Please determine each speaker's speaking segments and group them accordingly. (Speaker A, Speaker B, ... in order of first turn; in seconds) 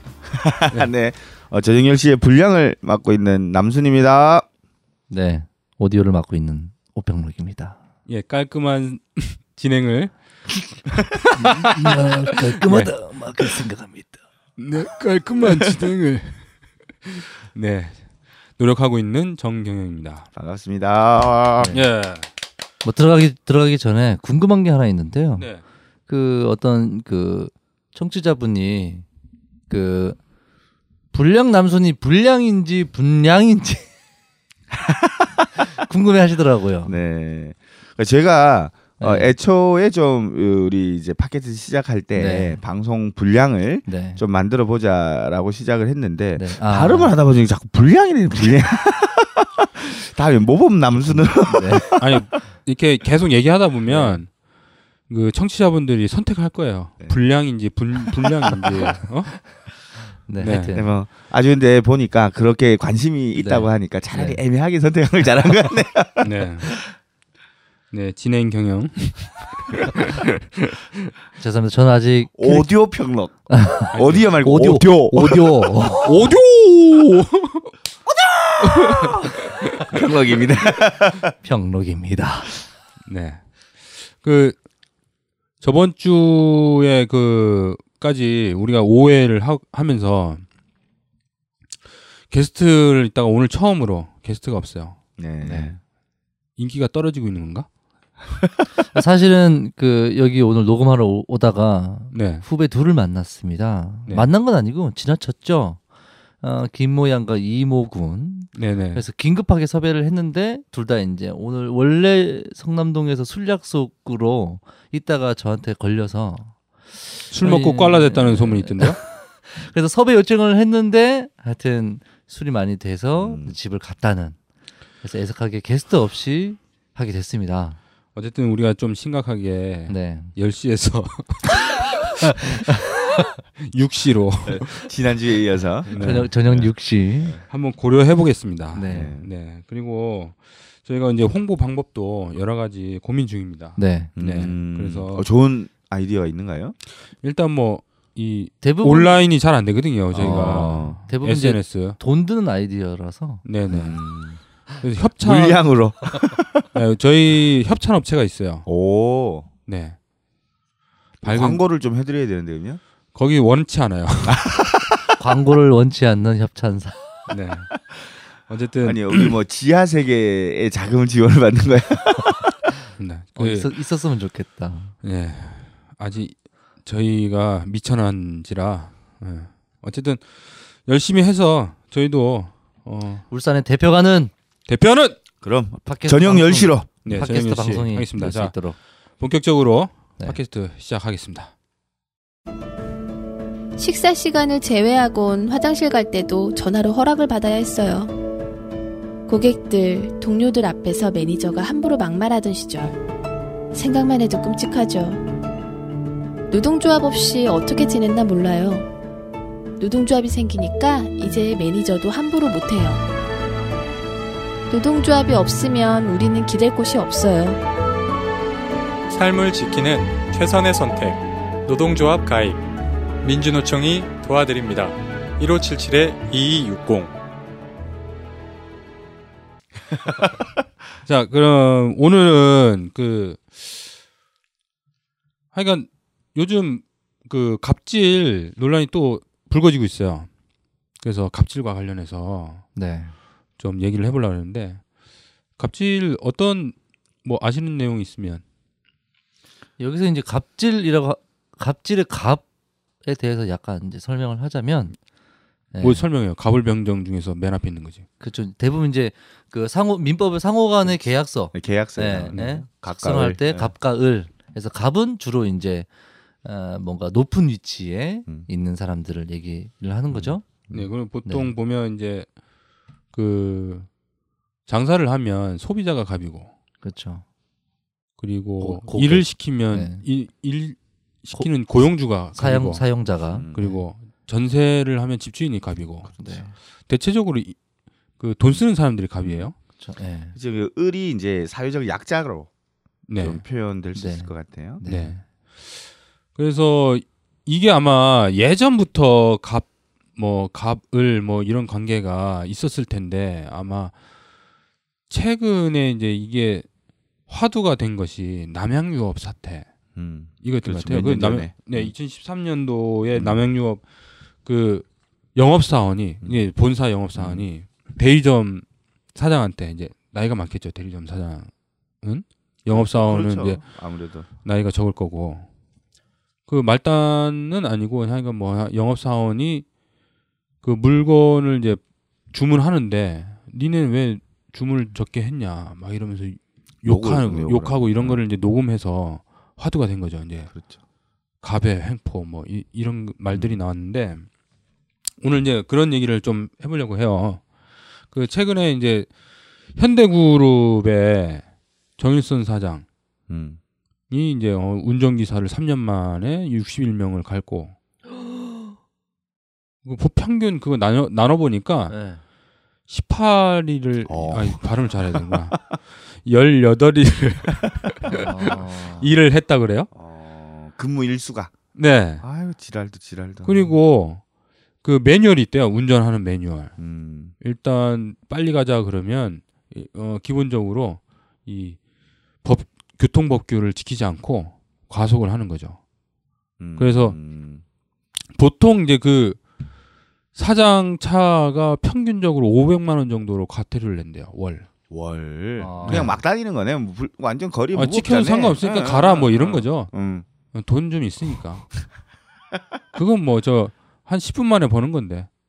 Speaker A: 0.2-4.4, 20.3-21.8, 34.7-35.5, 36.8-52.2, 58.5-59.0, 60.7-66.7, 72.3-76.0, 78.1-81.3, 95.2-95.8, 123.2-123.6, 134.4-137.4, 138.8-139.3, 144.2-146.8, 150.1-151.0, 153.7-154.4, 155.2-156.7, 158.7-159.5, 161.2-162.8, 164.2-165.0, 168.8-172.7, 185.4-186.9, 261.5-263.7, 270.1-270.9, 283.3-283.6, 290.4-292.5, 293.2-294.8, 309.9-311.9, 313.1-313.4, 317.1-317.4, 322.7-324.3, 336.8-338.2, 353.3-353.6, 364.1-365.2, 369.9-371.7, 372.2-373.7, 376.8-377.3, 386.6-387.6, 394.9-400.2
Speaker B: 5.1-7.8, 11.4-14.2, 22.8-25.5, 26.1-29.1, 29.7-30.2, 31.1-33.9, 35.6-36.9, 39.0-39.3, 42.1-42.6, 43.9-44.2, 46.4-47.1, 51.4-51.9, 53.9-54.2, 60.2-60.9, 63.4-64.4, 71.4-72.7, 73.5-76.1, 81.4-82.6, 95.4-95.7, 98.9-105.8, 106.4-124.4, 125.0-127.8, 129.9-130.3, 135.9-137.4, 138.7-139.1, 143.8-144.1, 148.6-149.2, 150.2-153.4, 165.2-167.0, 173.3-174.9, 183.3-184.3, 185.8-188.8, 242.8-243.1, 249.8-252.4, 253.0-254.9, 255.7-256.0, 258.2-265.9, 266.4-270.4, 271.2-271.5, 276.8-277.2, 278.6-280.0, 282.3-283.8, 286.2-286.5, 289.8-290.4, 293.9-295.2, 361.9-362.2, 368.1-369.1, 395.6-396.1
Speaker C: 8.1-12.1, 14.6-16.5, 17.0-20.3, 21.7-22.3, 25.4-25.6, 52.0-54.4, 55.1-59.5, 60.4-60.7, 66.2-66.7, 67.9-71.1, 73.9-74.2, 76.0-77.7, 78.6-80.0, 83.0-84.6, 85.6-90.4, 92.3-95.0, 96.6-97.7, 102.1-102.4, 108.5-109.0, 117.3-119.0, 128.1-132.5, 133.6-134.9, 135.9-136.3, 137.5-145.2, 147.2-152.0, 153.4-154.0, 154.8-155.6, 156.7-158.7, 159.7-160.0, 161.2-161.6, 163.1-164.5, 167.3-169.3, 173.0-173.7, 175.0-183.2, 184.7-185.2, 187.0-188.7, 189.2-191.5, 231.0-233.9, 235.5-240.3, 241.0-242.7, 243.6-244.8, 245.6-248.4, 255.8-258.1, 270.7-272.3, 273.1-273.9, 274.7-276.5, 278.2-282.9, 283.5-286.3, 286.9-287.6, 288.2-289.5, 293.1-293.4, 294.9-303.9, 305.1-306.6, 307.3-309.7, 310.4-313.8, 314.4-321.5, 322.0-323.6, 324.4-325.5, 326.5-329.6, 330.6-340.5, 341.4-344.3, 345.2-347.5, 348.1-349.1, 349.7-351.4, 352.0-352.8, 354.1-357.8, 359.8-361.9, 362.9-369.9, 371.7-372.2, 373.4-374.2, 374.8-376.8, 377.4-381.8, 382.4-385.8, 386.8-387.1, 388.3-389.4, 390.3-394.7, 397.7-399.9, 400.5-401.8, 402.9-405.3
Speaker D: 193.8-198.1, 199.3-202.9, 203.7-205.2, 206.5-208.9, 209.8-213.0, 214.7-217.6
Speaker E: 219.1-222.6, 223.2-227.1